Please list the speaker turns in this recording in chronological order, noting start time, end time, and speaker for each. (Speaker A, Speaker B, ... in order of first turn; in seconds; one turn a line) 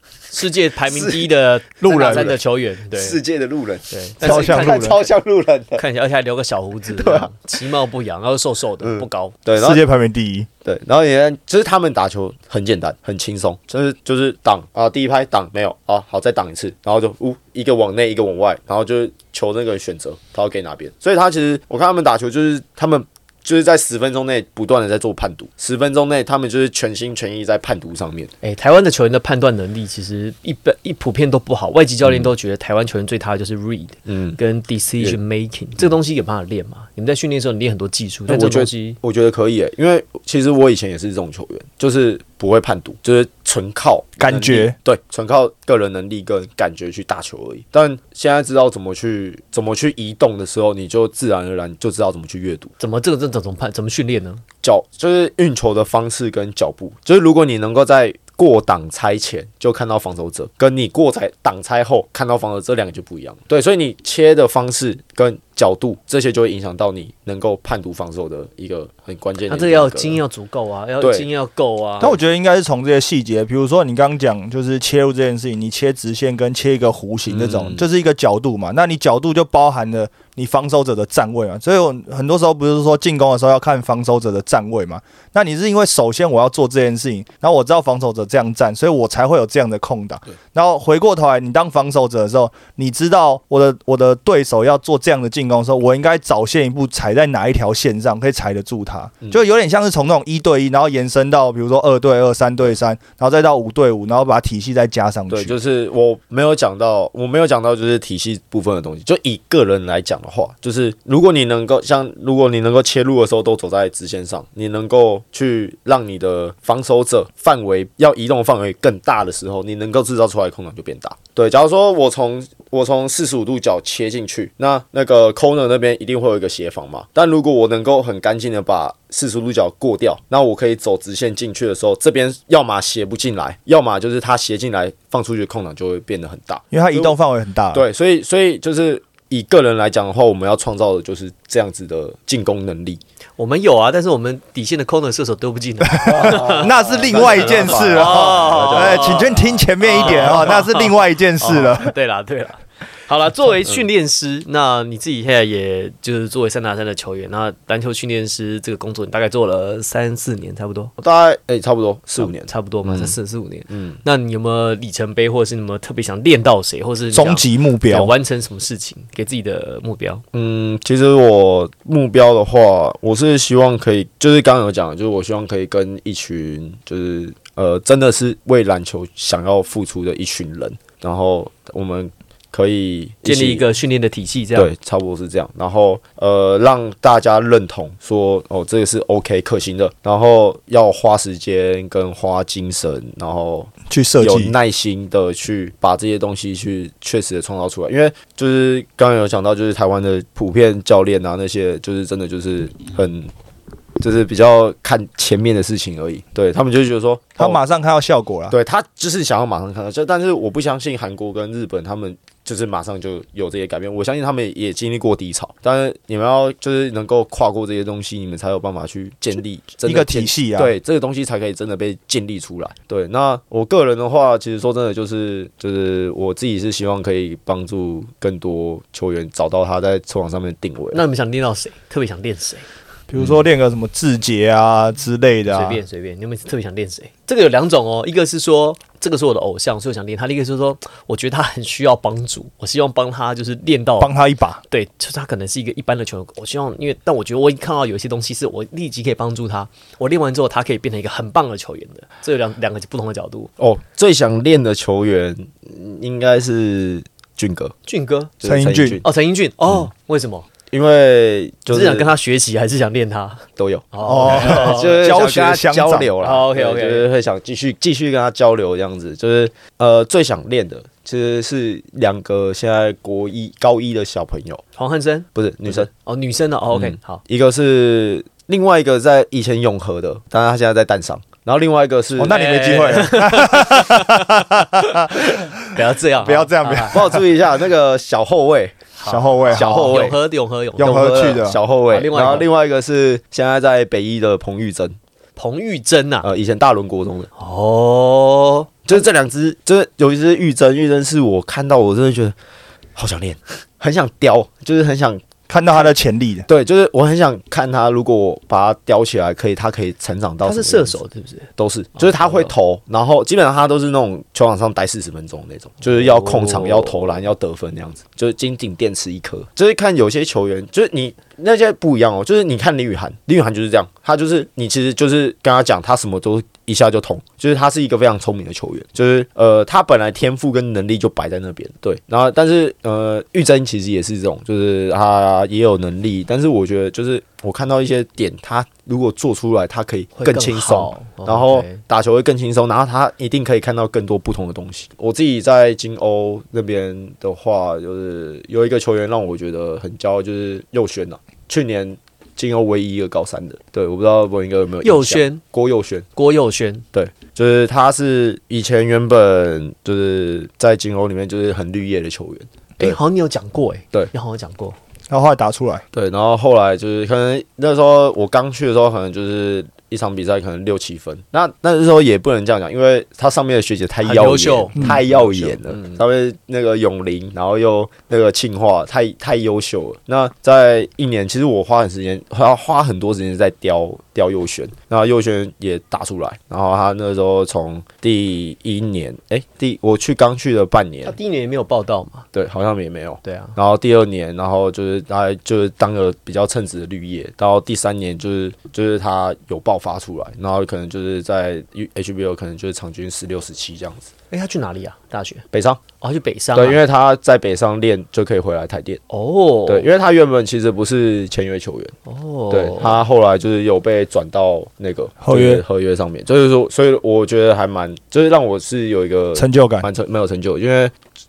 Speaker A: 0.3-3.2
Speaker B: 0.9-1.3
Speaker C: 1.8-2.3
Speaker B: 1.9-2.4
Speaker B: 2.9-5.8
Speaker A: 3.9-5.1
Speaker C: 4.2-5.0
Speaker A: 5.8-9.4
Speaker B: 6.9-7.3
Speaker B: 8.8-9.8
Speaker C: 9.6-10.5
Speaker B: 10.6-28.3
Speaker A: 28.4-39.0
Speaker B: 34.1-34.4
Speaker B: 38.3-52.7
Speaker C: 44.2-44.7
Speaker A: 52.8-54.4
Speaker B: 54.6-70.2
Speaker A: 69.5-72.2
Speaker B: 71.0-71.3
Speaker C: 72.0-105.5
Speaker B: 77.3-77.8
Speaker B: 105.3-137.2
Speaker C: 136.7-137.8
Speaker B: 137.7-143.0
Speaker A: 143.4-160.9
Speaker C: 145.9-151.9
Speaker B: 146.0-149.3
Speaker B: 161.0-163.2
Speaker A: 162.2-170.2
Speaker B: 163.7-164.0
Speaker C: 167.1-168.1
Speaker B: 170.3-183.6
Speaker A: 183.2-184.7
Speaker B: 184.5-203.3
Speaker C: 193.9-194.5
Speaker B: 204.0-207.6
Speaker C: 207.4-208.5
Speaker B: 208.5-231.0
Speaker C: 219.8-220.7
Speaker A: 230.9-232.7
Speaker C: 233.1-235.8
Speaker A: 235.5-244.1
Speaker C: 244.0-244.6
Speaker A: 244.7-253.5
Speaker B: 253.6-257.7
Speaker A: 257.9-258.3
Speaker B: 258.4-259.1
Speaker C: 258.4-259.0
Speaker A: 259.0-260.4
Speaker B: 260.7-262.1
Speaker A: 261.7-265.1
Speaker B: 263.6-274.6
Speaker C: 264.0-266.1
Speaker A: 266.2-267.1
Speaker A: 274.8-277.2
Speaker B: 275.3-275.9
Speaker B: 276.7-282.5
Speaker C: 282.2-287.2
Speaker A: 282.3-287.1
Speaker B: 286.9-288.8
Speaker A: 289.0-292.5
Speaker C: 289.1-289.8
Speaker B: 289.4-290.2
Speaker C: 290.8-291.6
Speaker B: 290.8-294.9
Speaker A: 295.4-296.2
Speaker B: 296.2-297.3
Speaker A: 297.4-299.0
Speaker B: 298.9-302.3
Speaker B: 302.9-305.2
Speaker C: 305.5-306.4
Speaker B: 306.4-311.0
Speaker A: 310.4-312.5
Speaker B: 311.6-356.1
Speaker A: 315.9-317.0
Speaker A: 340.1-341.8
Speaker A: 354.8-355.4
Speaker A: 356.1-356.9
Speaker B: 356.9-363.0
Speaker A: 362.8-364.8
Speaker C: 365.1-365.8
Speaker B: 365.9-391.1
Speaker A: 374.0-375.8
Speaker A: 391.1-392.3
Speaker B: 392.3-404.1
Speaker A: 393.2-393.5
Speaker A: 404.3-405.4
Speaker B: 405.5-405.8
Speaker A: 406.0-406.8
Speaker B: 406.5-409.0
Speaker A: 409.1-409.9
Speaker B: 409.6-411.9
Speaker A: 412.1-413.0
Speaker B: 412.5-420.9
Speaker C: 415.2-415.6
Speaker C: 419.3-419.8